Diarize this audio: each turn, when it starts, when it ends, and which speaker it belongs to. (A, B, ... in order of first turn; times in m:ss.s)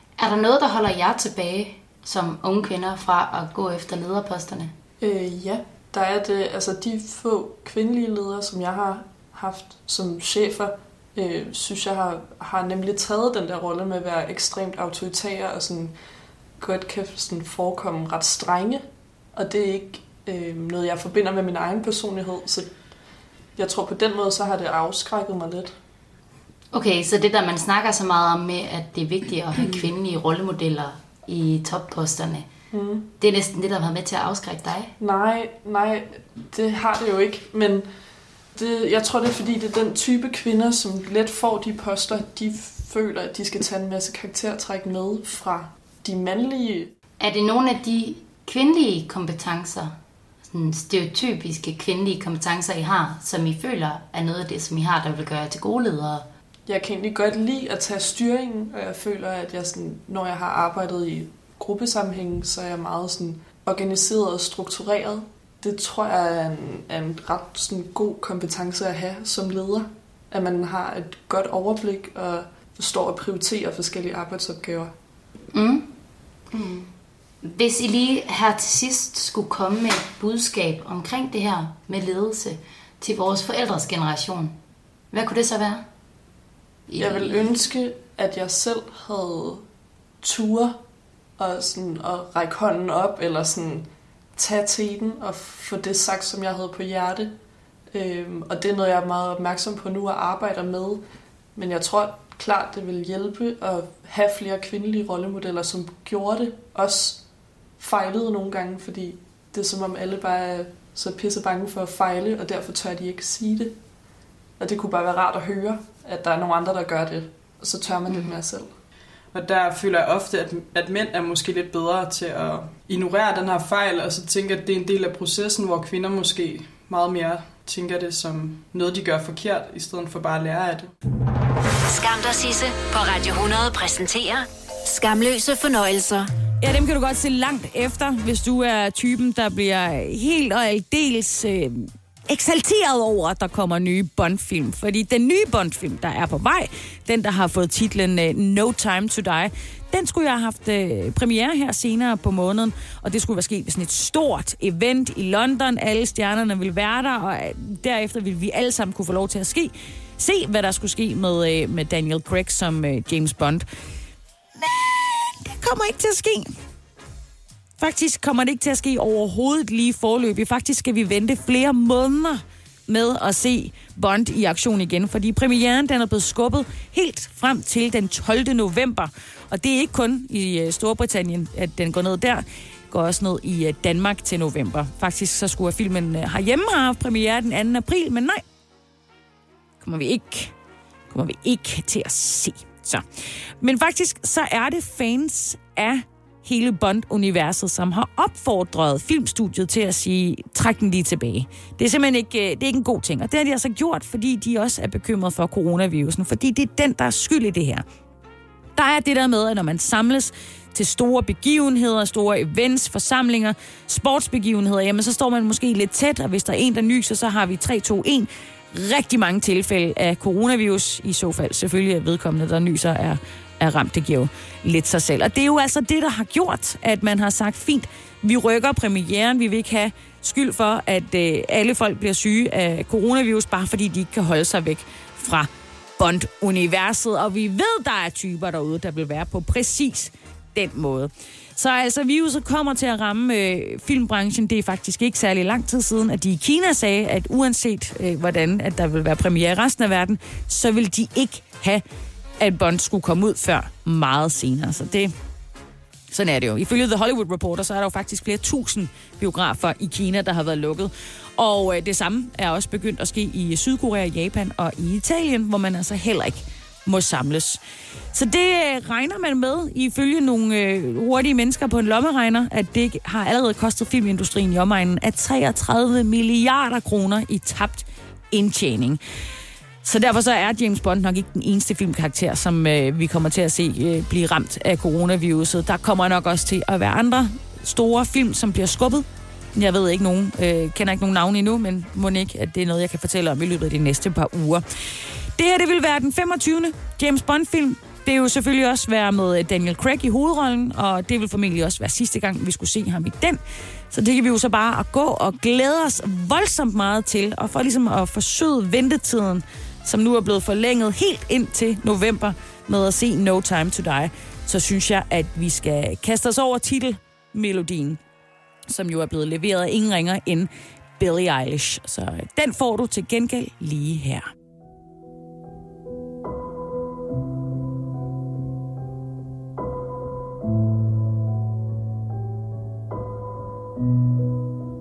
0:00.2-0:04.7 A
0:05.0-0:16.0 B
0:16.6-0:18.8 B
0:19.3-0:22.7 B
0:23.6-0:25.7 B
0:26.7-0:32.5 A
0:32.7-0:33.1 B
0:33.2-0:34.9 A
0:35.0-0:37.9 B
0:38.5-0:46.9 B
0:47.2-0:56.2 A
0:56.6-1:14.9 B
1:15.5-1:15.9 A
1:17.4-1:24.6 A
1:25.1-1:25.8 A
1:26.9-1:27.5 A
1:27.0-1:29.6 B
1:30.2-1:30.8 B
1:31.4-1:37.3 B
1:37.9-1:41.0 B
1:41.5-1:47.2 B
1:47.8-1:53.8 B
1:54.6-1:58.7 B
1:59.3-2:10.9 C
2:11.9-2:16.3 D
2:16.6-2:43.6 E
2:44.6-2:46.5 E
2:47.8-3:08.4 E
3:09.8-3:10.5 E
3:11.1-3:13.0 E
3:13.6-3:27.8 E
3:28.8-4:11.8 E
4:12.4-4:15.1 E
4:16.1-4:27.6 E
4:28.1-4:39.0 E
4:39.8-4:54.6 E
4:55.4-5:03.4 E
5:03.9-5:18.0 E
5:18.7-5:24.3 E